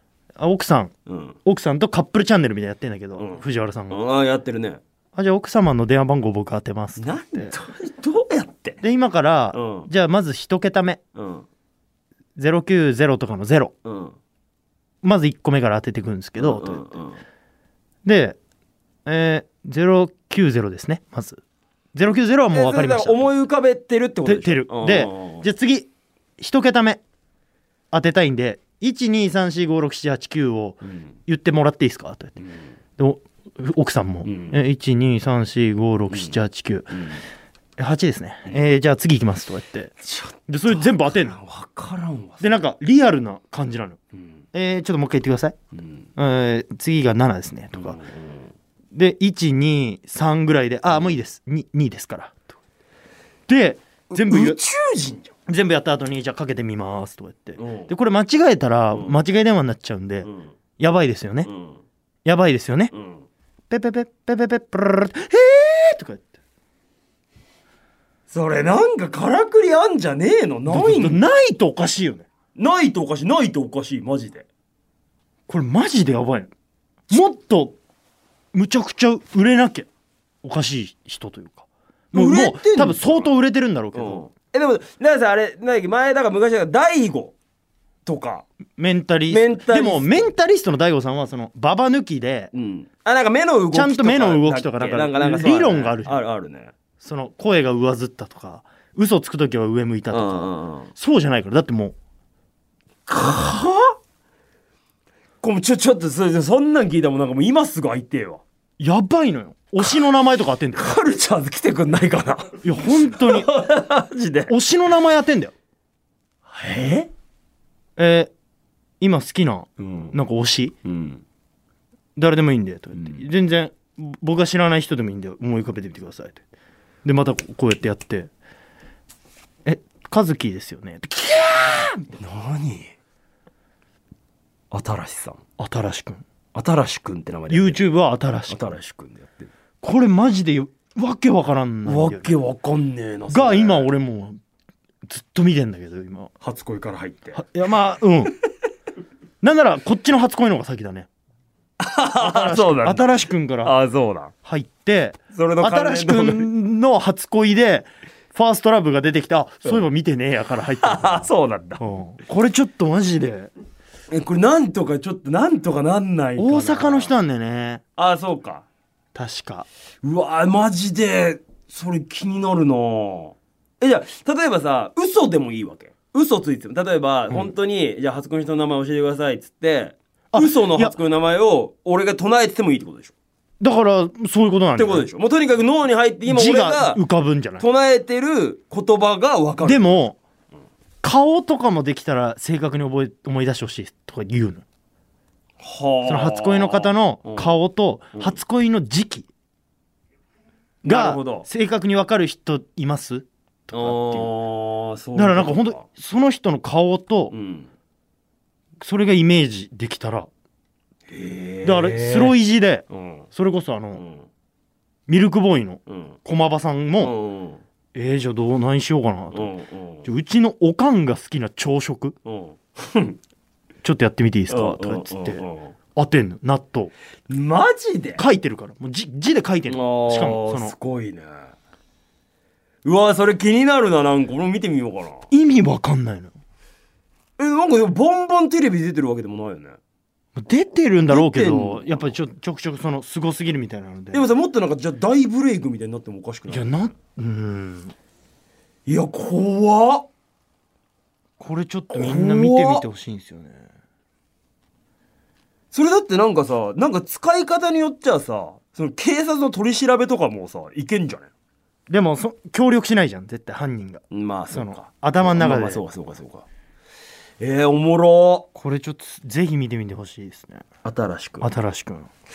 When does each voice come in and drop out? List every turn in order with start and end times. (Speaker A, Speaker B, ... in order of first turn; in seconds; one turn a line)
Speaker A: 0.4-0.9
Speaker B: 1.1-1.4
Speaker A: 1.4-4.0
Speaker B: 3.2-4.8
Speaker A: 5.2-7.5
Speaker B: 7.0-8.8
Speaker A: 8.8-11.0
Speaker B: 9.5-9.9
Speaker B: 11.2-11.5
Speaker A: 12.4-13.7
Speaker B: 13.8-14.2
Speaker A: 15.0-16.8
Speaker B: 16.4-17.2
Speaker A: 18.1-18.4
Speaker A: 19.1-21.4
Speaker A: 21.9-23.3
Speaker B: 22.5-25.5
Speaker A: 24.2-27.0
Speaker A: 27.9-32.4
Speaker B: 32.4-32.6
Speaker A: 33.0-37.0
Speaker B: 34.2-34.6
Speaker B: 36.1-36.4
Speaker B: 36.9-37.2
Speaker A: 37.8-39.9
Speaker B: 40.0-42.6
Speaker A: 40.5-41.4
Speaker A: 42.4-44.0
Speaker A: 44.5-45.5
Speaker B: 45.8-46.0
Speaker A: 46.2-48.0
Speaker B: 47.8-48.5
Speaker A: 48.9-52.6
Speaker A: 53.5-54.6
Speaker B: 54.1-55.3
Speaker A: 55.5-61.5
Speaker B: 57.6-57.9
Speaker B: 60.2-60.5
Speaker B: 61.5-61.8
Speaker A: 62.2-62.9
Speaker B: 62.9-63.2
Speaker A: 63.7-66.3
Speaker B: 68.3-71.2
Speaker A: 70.7-72.3
Speaker B: 72.5-74.5
Speaker A: 75.5-76.5
Speaker A: 77.1-77.8
Speaker A: 78.5-79.9
Speaker A: 80.4-84.2
Speaker B: 82.1-83.3
Speaker B: 83.9-87.3
Speaker B: 88.1-88.5
Speaker A: 88.8-92.5
Speaker B: 89.3-90.3
Speaker B: 92.5-96.7
Speaker A: 93.7-96.2
Speaker A: 97.0-100.4
Speaker B: 100.1-100.9
Speaker A: 101.0-102.0
Speaker B: 103.1-104.0
Speaker B: 105.4-108.4
Speaker A: 108.8-111.0
Speaker B: 110.8-114.5
Speaker A: 112.6-113.5
Speaker A: 114.5-115.5
Speaker B: 116.5-117.1
Speaker A: 118.0-118.3
Speaker A: 119.0-120.8
Speaker B: 119.8-120.2
Speaker B: 120.8-121.2
Speaker A: 122.2-126.4
Speaker B: 123.0-123.2
Speaker A: 127.0-128.3
Speaker A: 129.7-132.1
Speaker B: 132.2-132.9
Speaker B: 134.7-135.4
Speaker A: 135.6-136.2
Speaker B: 136.5-137.8
Speaker A: 137.5-138.8
Speaker B: 138.5-139.5
Speaker A: 139.8-142.3
Speaker B: 141.8-143.9
Speaker A: 143.3-144.4
Speaker A: 145.1-146.3
Speaker B: 146.4-147.4
Speaker A: 147.3-148.3
Speaker A: 149.4-151.1
Speaker B: 151.8-153.1
Speaker A: 152.2-153.8
Speaker B: 153.6-154.3
Speaker A: 154.4-163.5
Speaker B: 155.3-156.5
Speaker B: 160.8-161.8
Speaker B: 164.1-167.1
Speaker A: 166.4-167.8
Speaker B: 168.0-168.7
Speaker A: 169.1-169.7
Speaker B: 170.0-183.1
Speaker A: 180.3-180.9
Speaker A: 183.6-185.1
Speaker B: 184.8-187.0
Speaker A: 186.3-187.7
Speaker B: 187.6-190.0
Speaker A: 189.6-190.2
Speaker A: 191.0-194.6
Speaker B: 195.6-197.6
Speaker A: 196.1-199.3
Speaker A: 200.8-204.3
Speaker B: 200.8-201.5
Speaker B: 203.7-205.8
Speaker A: 205.2-207.3
Speaker B: 207.3-207.7
Speaker A: 208.8-210.3
Speaker B: 211.1-212.4
Speaker A: 211.6-214.0
Speaker B: 212.9-213.3
Speaker B: 214.0-214.3
Speaker A: 215.1-217.1
Speaker B: 215.9-216.2
Speaker B: 217.0-217.6
Speaker A: 217.9-219.5
Speaker B: 219.3-220.1
Speaker A: 220.1-222.2
Speaker B: 222.3-223.2
Speaker A: 223.8-225.4
Speaker B: 224.5-225.8
Speaker A: 226.0-226.9
Speaker B: 227.3-228.2
Speaker A: 228.2-230.8
Speaker B: 229.7-231.5
Speaker B: 232.8-235.3
Speaker A: 235.3-236.3
Speaker B: 237.4-239.8
Speaker A: 240.4-244.3
Speaker B: 241.1-242.1
Speaker B: 244.1-246.7
Speaker A: 246.5-247.9
Speaker B: 248.9-250.1
Speaker A: 251.4-253.7
Speaker B: 251.9-252.8
Speaker B: 255.7-261.3
Speaker A: 261.9-265.8
Speaker B: 264.1-266.4
Speaker B: 267.4-268.5
Speaker A: 268.6-270.6
Speaker B: 270.8-271.5
Speaker A: 271.4-272.1